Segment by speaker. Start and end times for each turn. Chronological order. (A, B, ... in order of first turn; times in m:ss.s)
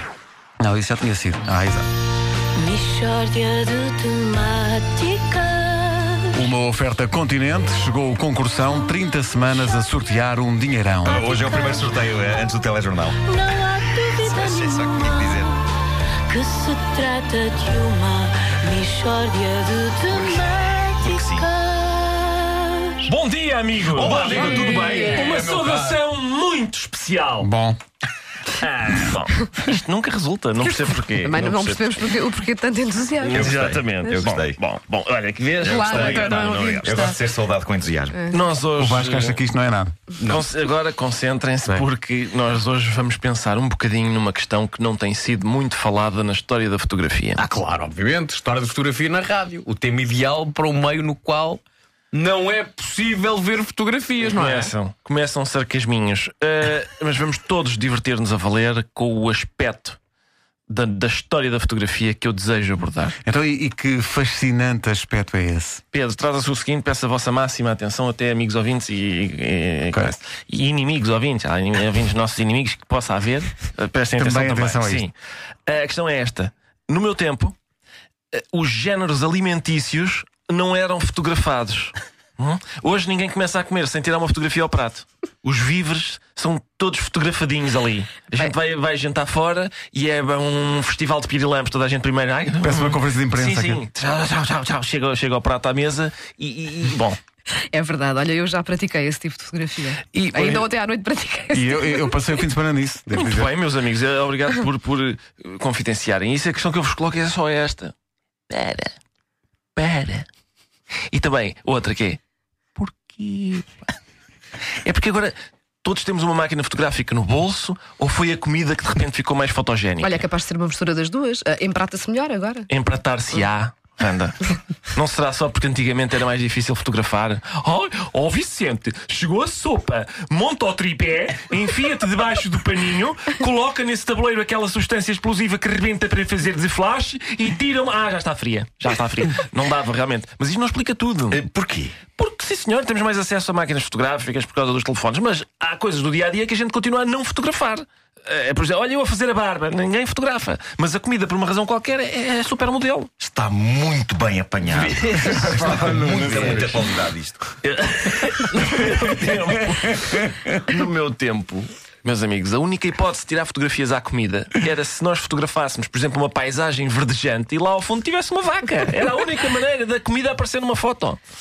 0:00.6-0:01.9 A
0:02.6-0:06.4 B
0:06.3-0:11.2 A
0:11.1-0:13.3 C
0:11.1-0:11.9 B
0:13.3-0:15.6 B
0:14.2-0:15.5 C
0:16.3-0:23.1 B
0:20.1-0:21.5 C
0:23.0-0:27.5 D
0:23.9-0:25.2 C
0:24.0-0:26.0 E
0:27.4-0:27.8 A
0:28.5-0:31.8 D
0:31.1-0:34.2 F
0:33.2-0:37.1 D
0:33.3-0:34.6 C
0:35.6-0:37.2 F
0:35.6-0:38.2 C
0:38.1-0:38.4 F
0:38.3-0:39.4 D
0:38.8-0:39.9 A
0:40.2-0:47.4 D
0:47.4-0:54.7 E
0:54.2-1:00.0 D
1:00.7-1:03.2 D
1:03.2-1:05.8 A
1:05.9-1:15.1 D
1:14.2-1:15.0 A
1:15.7-1:17.6 D
1:18.3-1:37.2 D
1:32.6-1:33.8 A
1:37.7-1:42.2 F
1:40.1-1:40.7 D
1:41.5-1:43.5 A
1:43.1-1:47.9 D
1:48.5-1:48.9 D
1:49.8-1:50.3 D
1:51.1-1:52.2 D
1:52.8-1:53.9 D
1:54.8-2:00.2 D
2:00.0-2:02.7 F
2:02.7-2:21.4 D
2:21.3-2:22.0 C
2:22.2-2:33.1 D
2:33.2-2:37.4 C
2:34.7-2:36.7 D
2:35.2-2:36.8 A
2:37.6-2:51.2 D